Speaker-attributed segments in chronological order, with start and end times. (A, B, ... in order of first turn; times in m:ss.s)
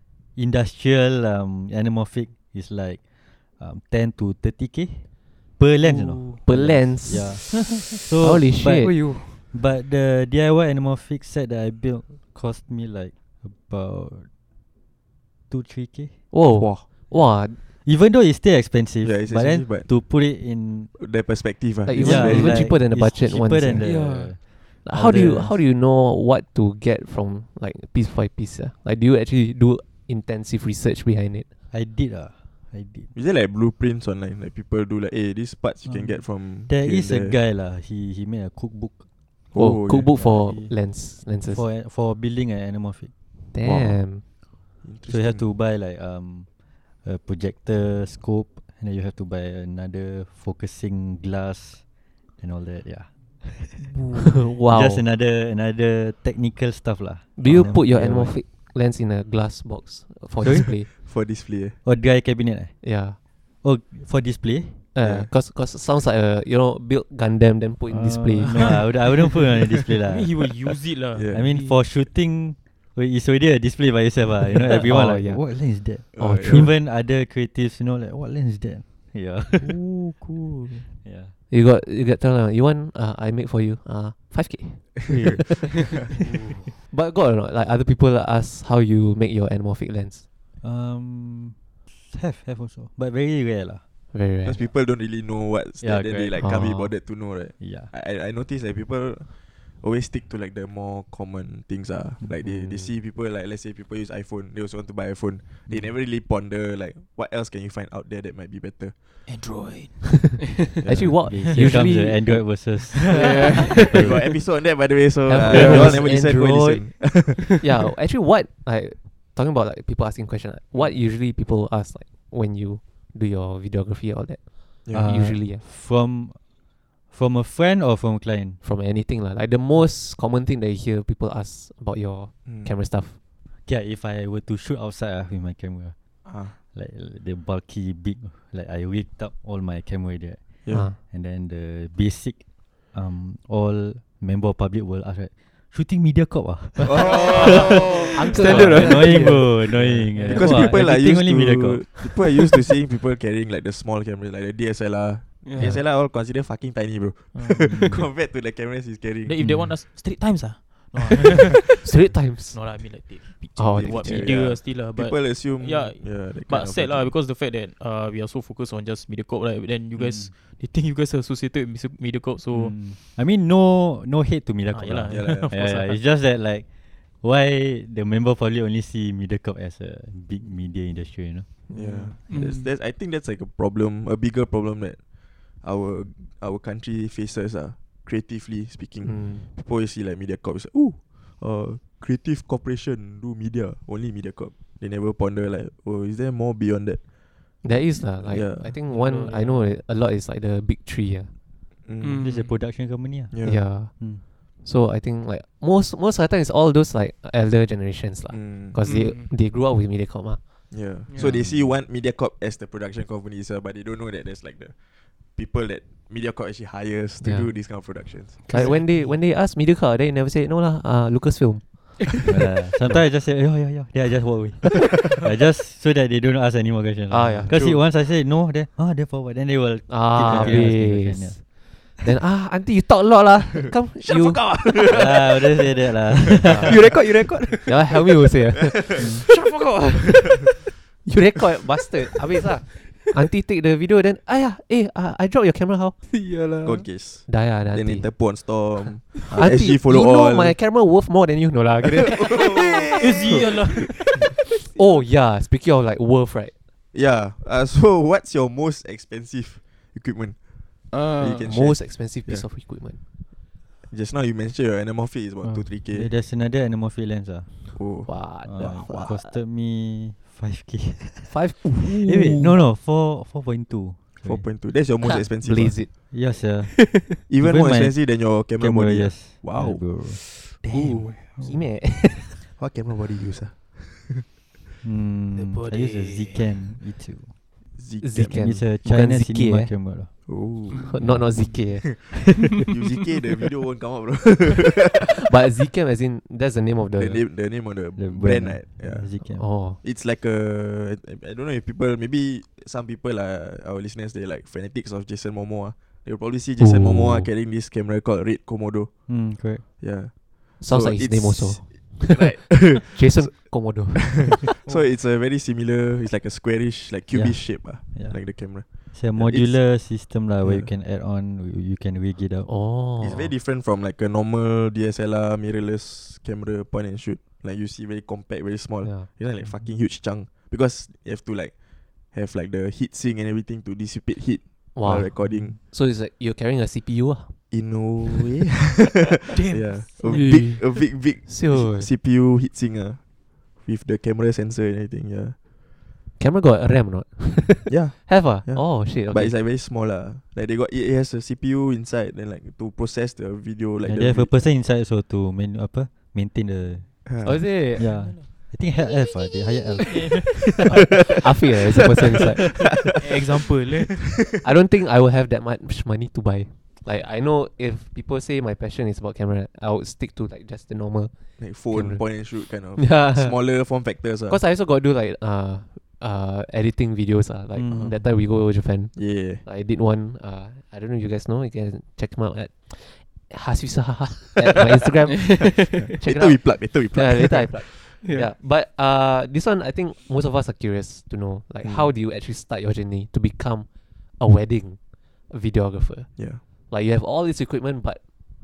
0:00.4-0:03.0 A
0:03.6-0:14.3 A
0:05.8-0:06.4 B
0:06.4-0:07.5 C
0:08.2-0:09.0 C
0:08.8-0:09.4 B
0:15.5-0:16.2 A
0:16.3-0:17.6 C
0:16.5-0:16.8 D
0:17.8-0:20.9 A
0:19.0-0:19.9 D
0:20.9-0:22.7 D
0:21.8-0:23.9 C
0:21.9-0:25.6 A
0:23.8-0:24.4 B
0:24.8-0:31.4 C
0:31.7-0:33.1 A
0:33.1-0:37.4 D
0:35.8-0:39.0 A
0:39.5-0:40.1 D
0:39.6-0:41.6 C
0:40.1-0:40.7 A
0:41.5-0:43.1 A
0:43.5-0:44.2 C
0:43.6-0:44.0 A
0:44.8-0:45.4 D
0:45.1-0:46.5 A
0:47.0-0:51.8 A
0:52.4-0:53.9 A
0:54.3-0:55.0 C
0:54.7-0:58.4 A
0:57.4-1:00.9 C
1:00.4-1:00.7 A
1:00.8-1:01.8 D
1:01.8-1:02.8 A
1:02.8-1:03.2 C
1:03.6-1:04.9 A
1:04.9-1:08.8 C
1:05.0-1:05.3 D
1:07.9-1:10.5 A
1:08.4-1:08.9 E
1:10.1-1:11.8 E
1:11.1-1:11.5 D
1:11.3-1:19.7 A
1:14.6-1:15.4 C
1:16.2-1:16.7 D
1:19.6-1:20.9 E
1:21.0-1:21.3 A
1:21.5-1:25.4 C
1:25.1-1:25.4 D
1:26.8-1:30.2 C
1:30.6-1:33.8 A
1:34.1-1:34.6 C
1:34.4-1:49.0 D
1:35.8-1:36.4 A
1:36.4-1:36.9 C
1:37.6-1:37.9 A
1:42.2-1:42.9 A
1:45.7-1:45.9 A
1:49.3-1:50.2 E
1:50.8-1:51.2 D
1:50.8-1:52.5 C
1:50.9-1:53.2 A
1:53.1-1:53.8 B
1:53.8-1:54.3 A
1:53.8-1:57.6 D
1:55.2-1:56.8 C
1:55.5-1:57.1 A
1:55.5-1:55.9 B
1:57.6-2:05.6 C
2:04.8-2:05.1 D
2:04.9-2:06.4 A
2:07.1-2:08.6 A
2:08.6-2:13.2 C
2:12.4-2:12.7 D
2:13.6-2:15.9 A
2:16.2-2:16.5 D
2:16.5-2:27.7 A
2:20.6-2:20.9 D
2:20.7-2:21.0 C
2:26.8-2:29.1 D
2:27.2-2:29.4 B
2:27.2-2:30.5 C
2:28.2-2:32.1 A
2:30.2-2:39.4 D
2:35.4-2:35.8 B
2:37.3-2:38.0 E
2:37.7-2:38.0 A
2:39.2-2:52.8 E
2:39.4-2:39.8 A
2:41.8-2:42.8 C
2:43.6-2:44.4 C
2:43.7-2:47.1 D
2:50.0-2:50.3 A
2:52.5-2:56.6 A
2:54.7-2:56.0 E
2:55.1-2:55.5 D
2:57.2-3:01.5 A
3:01.7-3:02.1 C
3:01.7-3:17.0 D
3:02.3-3:02.7 B
3:09.0-3:09.4 C
3:17.6-3:21.3 C
3:18.2-3:18.8 D
3:18.9-3:19.8 E
3:21.8-3:22.3 D
3:22.0-3:22.6 B
3:22.2-3:24.2 A
3:23.3-3:23.6 D
3:23.4-3:23.9 C
3:24.6-3:30.4 C
3:28.3-3:28.8 D
3:28.8-3:29.3 B
3:30.7-3:38.7 D
3:31.1-3:31.4 B
3:31.2-3:31.7 A
3:37.2-3:37.5 C
3:38.4-3:39.1 B
3:38.4-3:42.2 C
3:42.2-3:51.4 A
3:47.1-3:47.5 C
3:47.5-3:47.8 D
3:49.9-3:54.6 C
3:50.2-3:50.6 D
3:54.1-3:55.3 D
3:54.9-3:56.8 A
3:56.4-3:56.8 C
3:56.6-3:57.8 B
3:57.6-4:05.9 C
3:59.0-3:59.2 A
4:06.1-4:06.9 B
4:06.6-4:10.6 D
4:07.2-4:08.4 C
4:09.3-4:12.6 C
4:12.0-4:14.3 D
4:13.0-4:14.1 E
4:14.6-4:16.5 C
4:16.9-4:22.4 D
4:20.9-4:21.5 B
4:21.4-4:23.0 C
4:23.8-4:26.1 D
4:25.4-4:34.5 A
4:27.7-4:29.1 D
4:28.0-4:29.4 C
4:31.2-4:32.5 C
4:34.2-4:35.8 D
4:35.0-4:36.1 C
4:36.1-4:40.2 A
4:37.3-4:39.8 D
4:40.6-4:41.0 E
4:40.7-4:41.2 B
4:41.4-4:42.4 C
4:42.5-4:44.2 D
4:44.8-4:47.3 A
4:45.4-4:46.3 E
4:47.7-4:48.6 D
4:48.0-4:49.7 C
4:48.2-4:50.1 A
4:50.3-4:55.2 D
4:50.8-4:52.1 C
4:55.2-4:57.2 C
4:57.0-4:59.1 D
4:58.0-4:59.5 A
4:59.4-4:59.8 C
4:59.8-5:20.7 D
5:06.6-5:07.3 C
5:09.1-5:09.7 A
5:10.6-5:14.5 C
5:17.1-5:22.5 A
5:22.4-5:23.3 C
5:23.0-5:35.6 D
5:28.8-5:29.1 C
5:34.7-5:37.5 C
5:35.2-5:35.5 A
5:37.5-5:45.4 D
5:39.3-5:40.1 E
5:40.0-5:40.6 B
5:41.2-5:41.9 C
5:46.2-5:49.4 C
5:47.7-5:54.3 D
5:53.8-6:01.0 A
5:57.0-5:57.4 D
5:57.2-5:57.9 C
5:57.8-5:58.3 E
6:00.0-6:00.6 E
6:00.7-6:01.2 D
6:01.2-6:02.5 C
6:02.6-6:03.0 D
6:03.0-6:04.0 E
6:04.0-6:04.4 D
6:04.4-6:13.3 C
6:11.4-6:14.4 D
6:14.3-6:38.0 C
6:17.5-6:18.0 A
6:18.9-6:19.4 D
6:25.3-6:25.6 B
6:25.9-6:27.8 D
6:28.0-6:28.3 B
6:31.6-6:31.9 D
6:36.2-6:36.4 D